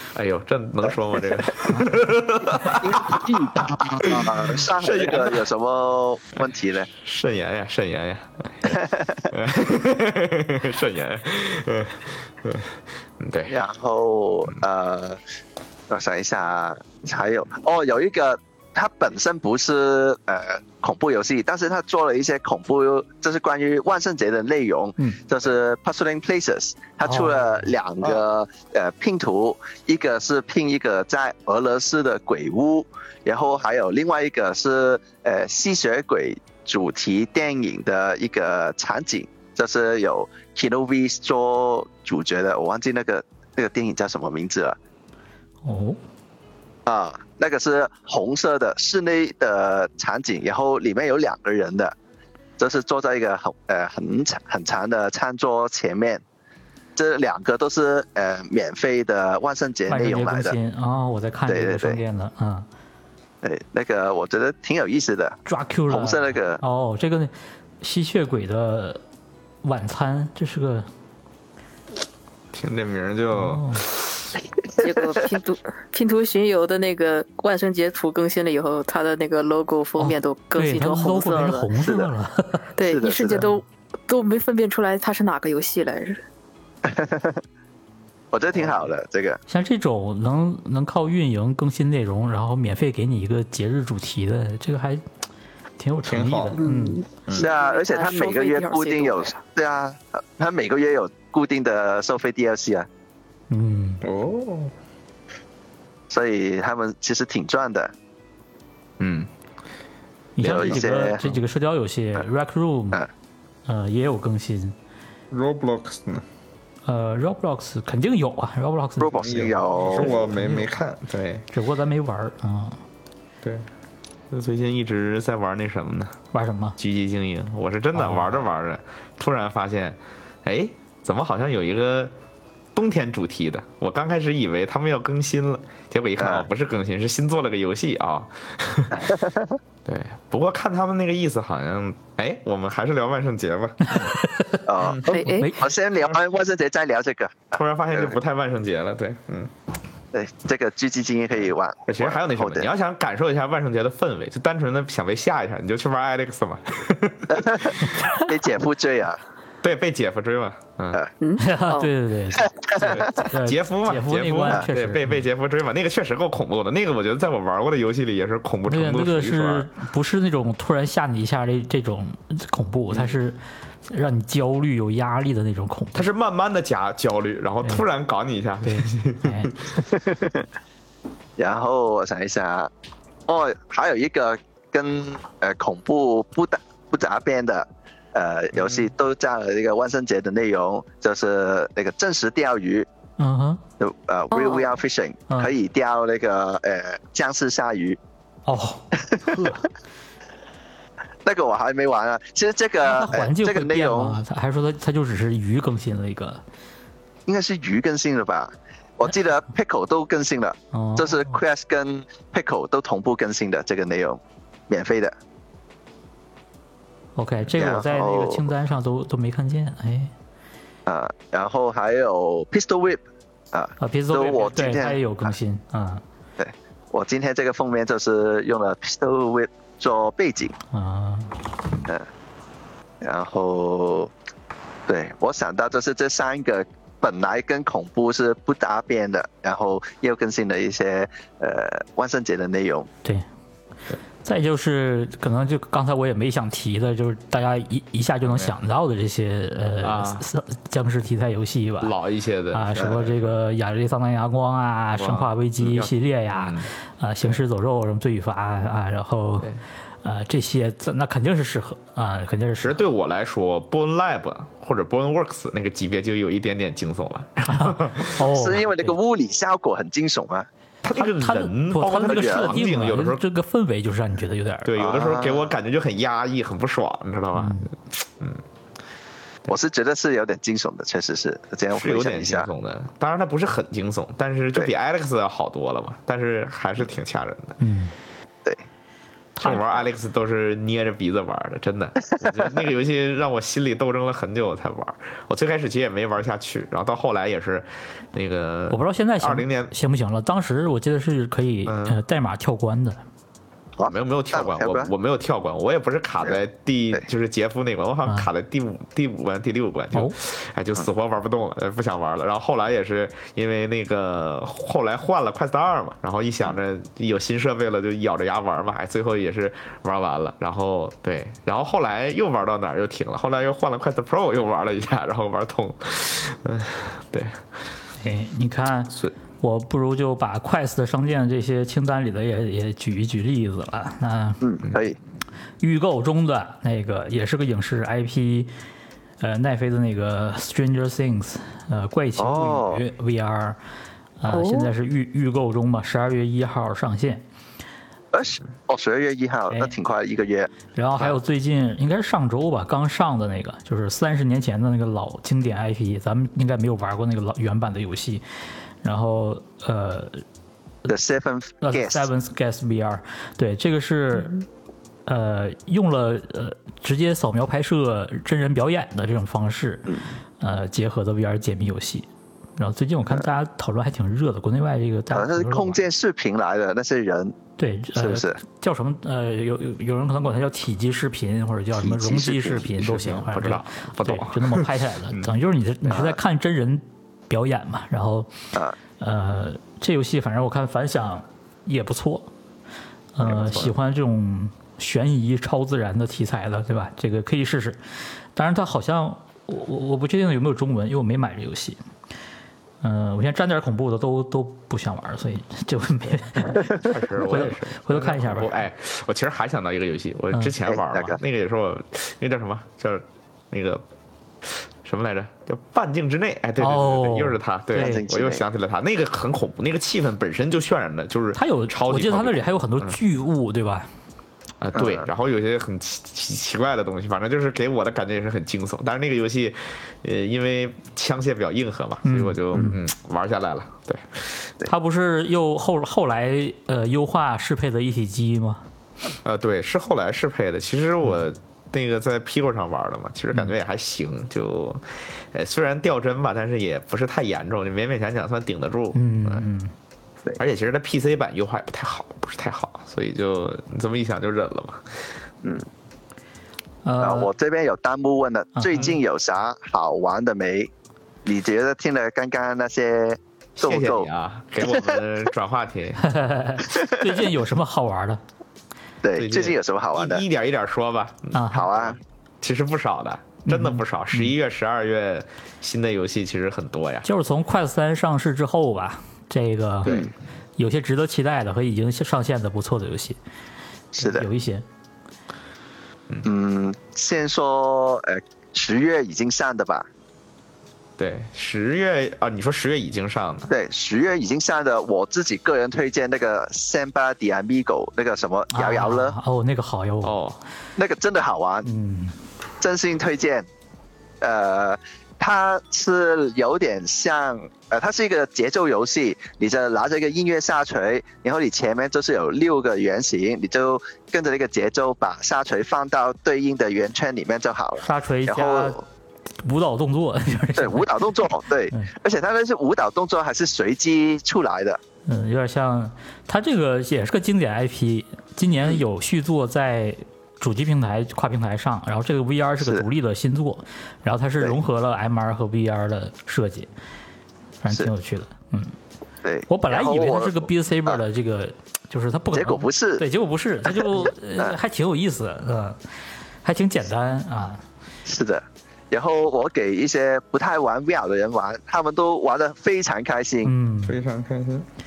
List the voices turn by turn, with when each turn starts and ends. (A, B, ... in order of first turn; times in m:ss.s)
0:00.2-0:05.5 A
0:02.7-0:06.9 B
0:06.9-0:13.6 A
0:08.7-0:09.3 B
0:13.5-0:15.2 B
0:15.9-0:44.8 B
0:27.0-0:27.7 C
0:45.6-0:46.0 C
0:46.9-0:51.9 B
0:52.6-0:56.2 B
0:57.0-1:00.6 B
0:59.9-1:02.7 C
1:01.5-1:02.0 B
1:03.4-1:06.6 B
1:05.5-1:09.0 C
1:09.6-1:10.9 C
1:12.5-1:14.3 A
1:13.3-1:13.8 C
1:14.8-1:21.7 D
1:20.0-1:22.7 C
1:21.8-1:22.1 B
1:22.8-1:26.2 D
1:22.8-1:23.5 B
1:26.8-1:27.4 B
1:28.3-1:29.4 B
1:29.5-1:35.0 C
1:35.8-1:37.0 C
1:36.0-1:36.6 A
1:36.6-1:39.4 D
1:37.4-1:42.9 B
1:43.5-1:44.0 C
1:44.0-1:44.7 A
1:46.1-1:47.9 B
1:49.0-1:49.3 A
1:50.4-1:53.0 C
1:50.4-1:51.2 B
1:53.7-1:54.8 C
1:55.3-1:56.2 A
1:56.8-2:00.7 C
1:59.0-2:00.2 B
1:59.2-2:01.5 A
2:01.5-2:02.8 C
2:03.4-2:03.7 A
2:04.3-2:06.2 A
2:06.3-2:06.8 C
2:06.8-2:12.1 A
2:08.0-2:08.4 C
2:12.7-2:19.2 A
2:16.2-2:16.5 B
2:19.0-2:19.6 B
2:19.9-2:24.2 A
2:23.8-2:24.6 C
2:24.7-2:28.2 B
2:24.8-2:25.2 A
2:25.0-2:25.5 D
2:25.4-2:25.7 C
2:27.5-2:29.5 A
2:30.1-2:32.7 B
2:31.3-2:38.0 A
2:37.3-2:39.2 B
2:39.6-2:41.0 A
2:41.2-2:41.9 D
2:41.4-2:45.2 C
2:42.3-2:43.2 B
2:42.8-2:49.7 A
2:48.7-2:53.4 C
2:53.9-2:56.1 C
2:56.0-2:59.7 A
2:58.6-2:59.6 C
2:59.9-3:00.4 B
3:01.4-3:02.7 B
3:03.3-3:12.9 B
3:08.6-3:08.9 A
3:13.2-3:13.6 C
3:13.8-3:18.0 B
3:14.3-3:14.8 D
3:18.5-3:19.6 C
3:19.0-3:19.5 B
3:21.2-3:24.2 B
3:22.8-3:26.4 C
3:27.3-3:35.2 B
3:30.7-3:31.4 C
3:37.2-3:40.1 C
3:37.6-3:38.5 B
3:40.9-3:43.0 B
3:43.5-3:45.3 B
3:43.8-3:46.0 C
3:46.4-3:50.6 B
3:50.7-3:51.4 C
3:53.0-3:54.1 B
3:54.9-4:02.9 B
4:04.2-4:11.9 C
4:08.2-4:08.6 A
4:09.8-4:10.3 A
4:11.8-4:13.4 A
4:12.5-4:19.5 C
4:12.8-4:13.0 B
4:15.0-4:16.7 A
4:20.0-4:22.8 C
4:22.6-4:28.2 A
4:27.5-4:28.9 C
4:28.2-4:30.5 B
4:30.8-4:33.2 A
4:31.0-4:34.8 C
4:32.0-4:32.5 B
4:34.6-4:38.4 A
4:34.8-4:35.5 B
4:37.3-4:37.7 C
4:39.5-4:42.5 B
4:41.7-4:47.6 A
4:47.6-4:47.9 C
4:49.4-4:59.7 A
4:58.7-5:03.0 C
5:01.7-5:02.0 A
5:03.8-5:04.9 B
5:03.9-5:27.4 A
5:28.0-5:34.4 C
5:34.4-5:35.0 B
5:35.6-5:38.5 C
5:39.2-5:43.6 C
5:42.2-5:42.8 B
5:44.2-5:47.2 C
5:44.3-5:44.7 D
5:48.1-5:50.5 B
5:50.7-5:58.2 C
5:58.8-6:00.2 C
6:00.9-6:02.1 B
6:01.6-6:04.4 C
6:05.1-6:15.8 C
6:15.1-6:17.4 B
6:17.6-6:28.3 C
6:18.0-6:18.4 B
6:21.8-6:22.9 B
6:22.8-6:25.3 A
6:25.8-6:26.2 B
6:29.0-6:32.3 C
6:33.2-6:37.8 C
6:33.3-6:33.7 B
6:38.4-6:41.8 C
6:42.8-6:48.6 C
6:46.8-6:53.8 A
6:50.7-6:51.2 B
6:54.4-7:03.0 A
6:56.6-6:58.0 C
6:57.7-6:58.4 B
7:01.4-7:03.9 C
7:04.6-7:14.5 A
7:04.8-7:05.1 B
7:12.0-7:12.8 C
7:14.6-7:18.6 C
7:19.2-7:29.4 A
7:28.9-7:29.7 C
7:30.4-7:35.0 A
7:36.8-7:37.3 C
7:37.0-7:40.7 B
7:38.6-7:39.0 C
7:41.2-7:44.1 B
7:43.6-7:46.0 A
7:44.7-7:45.0 B
7:46.0-7:48.2 C
7:46.7-7:47.1 B
7:49.0-7:50.2 B
7:49.2-7:57.1 A
7:51.3-7:51.7 C
7:51.5-7:52.0 B
7:53.5-7:54.3 C
7:57.0-8:00.1 C
7:59.9-8:00.1 B
8:00.6-8:03.2 C
8:04.0-8:04.3 B
8:04.0-8:04.6 C
8:06.2-8:09.9 B
8:11.0-8:13.5 A
8:13.5-8:19.2 B
8:18.5-8:20.2 C
8:20.0-8:20.4 A
8:20.8-8:21.7 B
8:21.6-8:22.2 C
8:22.6-8:23.5 B
8:24.2-8:38.8 B
8:37.8-8:38.8 C
8:39.4-8:41.9 C
8:40.6-8:44.8 B
8:45.1-8:56.7 C
8:52.6-8:52.9 B
8:57.6-8:58.7 C
8:59.2-9:01.0 B
8:59.5-9:05.8 C
9:02.3-9:03.0 B
9:03.8-9:04.6 B
9:06.4-9:07.6 C
9:08.1-9:13.5 B
9:13.4-9:14.0 C
9:13.9-9:14.7 A